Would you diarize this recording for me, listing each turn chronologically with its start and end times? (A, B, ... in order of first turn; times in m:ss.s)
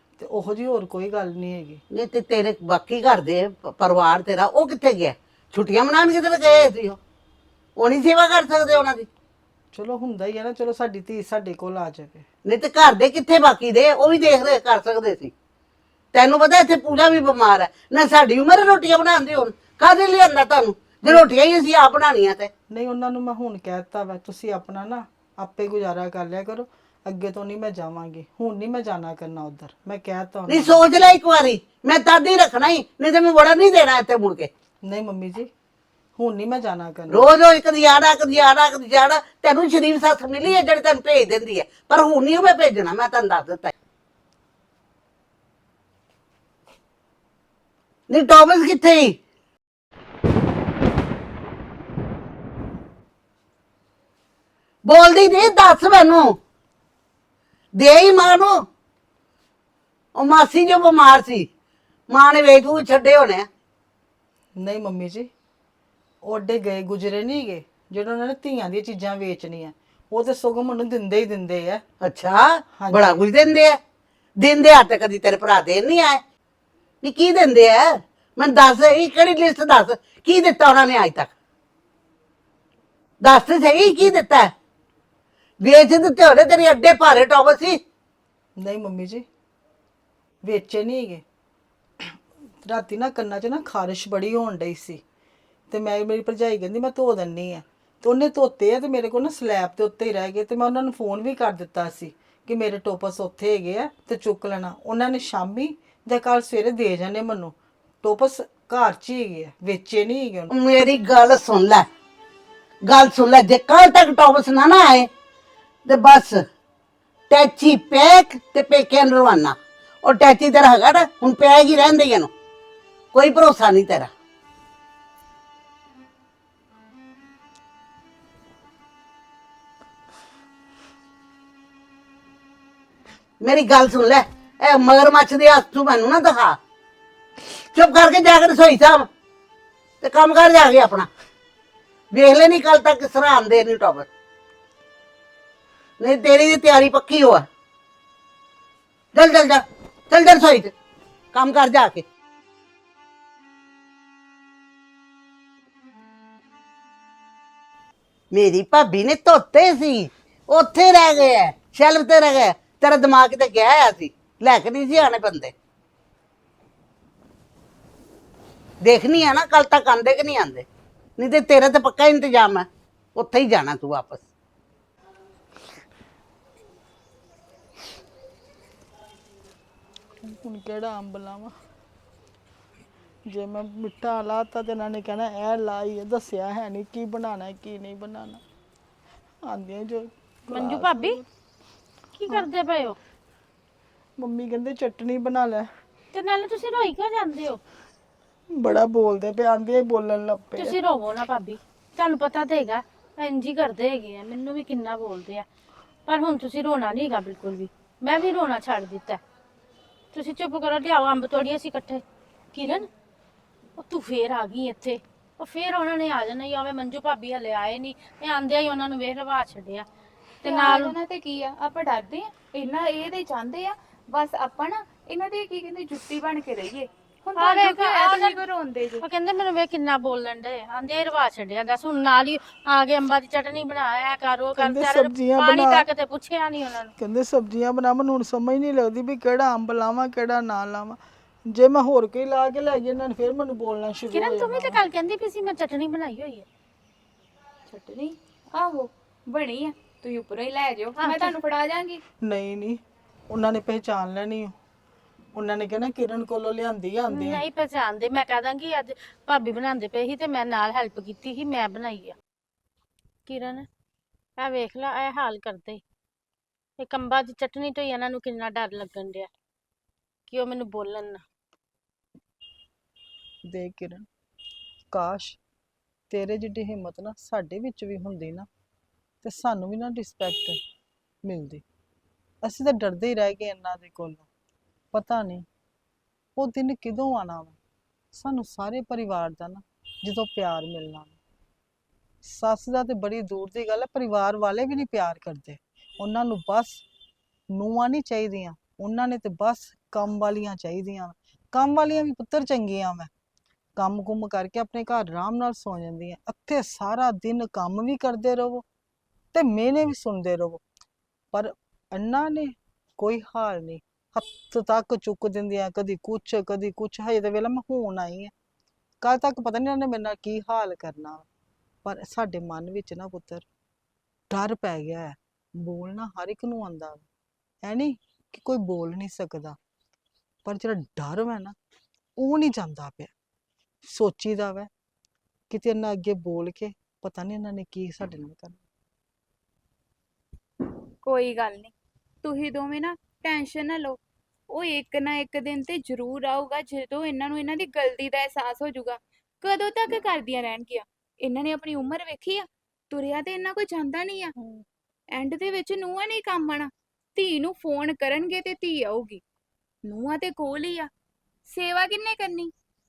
0:00.2-0:01.8 A
0:01.9-0:07.0 B
0:07.8-0:09.1 B
0:09.7-0:12.3 A
0:12.5-0:15.3 B
0:16.1-0:22.5 B
0:22.7-0:31.1 A
0:30.5-0:34.5 B
0:34.8-0:35.5 A
0:36.2-0:37.3 A
0:37.1-0:43.7 B
0:48.1-0:49.2 B
0:54.8-0:56.3 B
0:57.8-0:58.6 B
1:00.2-1:01.5 B
1:02.1-1:03.5 B
1:04.6-1:05.3 A
1:06.2-1:11.8 A
1:12.0-1:13.8 B
1:12.7-1:13.2 A
1:14.4-1:16.2 B
1:17.0-1:21.3 B
1:23.2-1:24.5 B
1:25.6-1:27.8 B
1:28.6-1:29.2 A
1:30.4-1:31.2 A
1:32.0-1:35.0 A
1:35.7-1:50.5 A
1:50.5-1:51.8 B
1:52.9-1:55.1 B
1:55.9-1:56.4 B
1:57.3-2:02.3 B
2:03.1-2:04.1 B
2:13.4-2:16.6 B
2:17.7-2:19.1 B
2:20.0-2:21.1 B
2:22.1-2:24.1 B
2:26.0-2:27.4 B
2:29.2-2:30.7 B
2:31.3-2:32.0 B
2:38.3-2:45.5 B
2:48.8-2:50.7 B
2:51.2-2:54.2 B
3:00.2-3:01.5 A
3:03.3-3:08.4 A
3:09.4-3:11.3 A
3:10.5-3:11.2 C
3:12.2-3:13.0 C
3:14.2-3:15.7 A
3:16.1-3:17.6 C
3:18.5-3:20.8 A
3:20.6-3:25.5 C
3:26.1-3:29.2 C
3:30.1-3:32.0 C
3:32.5-3:32.9 C
3:33.8-3:39.9 C
3:40.4-3:41.0 C
3:40.4-3:49.0 D
3:47.4-3:48.4 C
3:49.0-3:56.9 C
3:54.6-3:55.9 A
3:57.0-4:04.8 A
4:04.1-4:06.5 C
4:07.7-4:12.0 D
4:11.0-4:11.3 C
4:12.2-4:14.6 A
4:15.4-4:17.5 A
4:17.2-4:22.2 C
4:23.3-4:23.7 C
4:24.4-4:25.8 C
4:26.8-4:29.3 C
4:30.3-4:31.2 C
4:33.5-4:34.1 A
4:34.9-4:35.4 A
4:36.1-4:38.5 A
4:39.2-4:40.6 A
4:41.2-4:41.6 A
4:42.4-4:44.3 A
4:44.9-4:45.4 A
4:46.4-4:47.6 A
4:48.1-4:51.2 A
4:52.2-4:56.8 A
4:57.5-5:03.1 A
5:03.8-5:08.6 A
5:09.3-5:10.6 A
5:11.3-5:18.3 A
5:19.0-5:21.3 A
5:21.8-5:23.5 A
5:24.3-5:27.1 A
5:27.6-5:29.6 A
5:30.4-5:31.6 A
5:32.2-5:33.1 A
5:33.9-5:34.7 A
5:35.5-5:38.6 A
5:41.0-5:54.3 D
5:55.1-5:59.2 D
5:59.9-6:00.9 D
6:01.5-6:02.5 D